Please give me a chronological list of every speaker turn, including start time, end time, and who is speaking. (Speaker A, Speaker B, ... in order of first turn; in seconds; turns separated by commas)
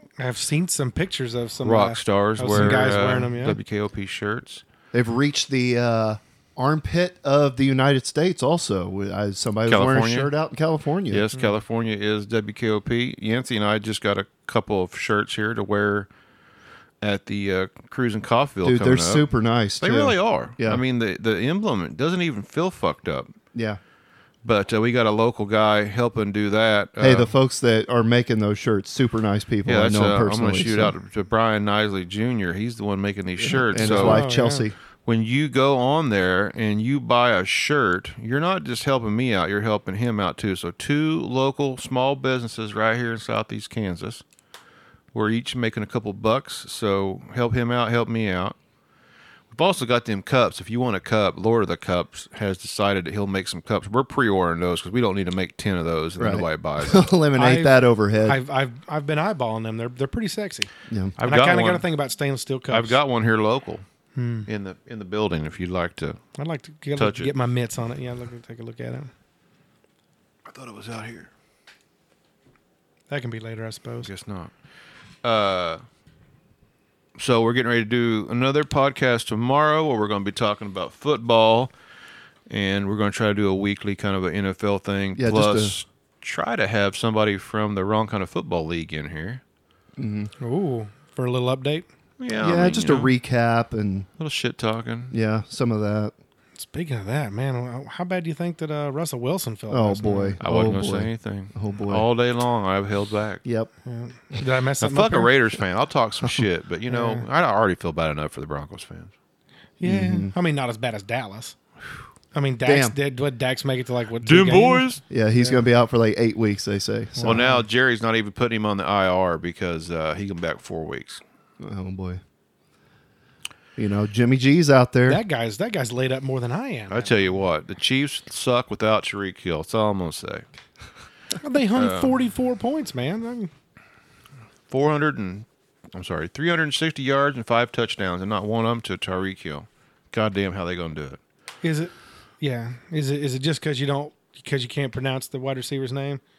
Speaker A: 0.2-3.6, Speaker B: 1.6-4.6, Speaker C: 4.9-11.3, Speaker B: 9.7-10.3, Speaker B: 11.1-16.1, Speaker B: 17.0-19.3, Speaker C: 18.6-20.8, Speaker B: 19.8-23.3, Speaker C: 23.5-23.8, Speaker B: 24.4-27.3, Speaker C: 27.0-30.9, Speaker B: 29.7-34.3, Speaker C: 33.4-34.8, Speaker A: 33.8-34.7, Speaker B: 35.0-44.2, Speaker B: 45.1-48.6, Speaker B: 49.5-57.1, Speaker C: 56.2-58.4, Speaker A: 57.4-60.7, Speaker C: 60.9-61.1, Speaker B: 61.2-61.9, Speaker A: 61.2-63.0, Speaker B: 62.7-63.9, Speaker A: 64.2-64.5, Speaker B: 64.5-66.2, Speaker A: 66.4-69.1, Speaker B: 67.0-67.3, Speaker B: 70.5-71.3, Speaker A: 73.1-74.1, Speaker B: 74.0-74.5, Speaker B: 75.2-75.8, Speaker B: 77.2-81.7, Speaker B: 82.5-89.4, Speaker C: 85.2-85.8, Speaker C: 90.0-90.3, Speaker A: 90.4-91.9, Speaker B: 92.2-93.1, Speaker C: 92.4-94.1, Speaker B: 94.2-95.2, Speaker C: 95.1-96.1, Speaker A: 96.6-100.4, Speaker C: 99.7-102.1, Speaker B: 100.4-103.4, Speaker C: 103.4-103.7, Speaker A: 103.9-105.3, Speaker B: 104.8-109.1, Speaker A: 106.9-107.3, Speaker A: 109.8-111.6, Speaker C: 109.8-110.3, Speaker A: 112.3-115.6, Speaker C: 112.7-113.0, Speaker B: 114.2-115.0, Speaker C: 115.1-117.5, Speaker A: 117.2-117.6, Speaker B: 117.2-121.2, Speaker C: 121.6-122.2, Speaker C: 123.8-125.2, Speaker A: 125.1-127.4, Speaker B: 126.9-130.5, Speaker A: 131.4-133.5, Speaker B: 131.8-132.2, Speaker B: 134.7-141.2, Speaker A: 141.6-146.2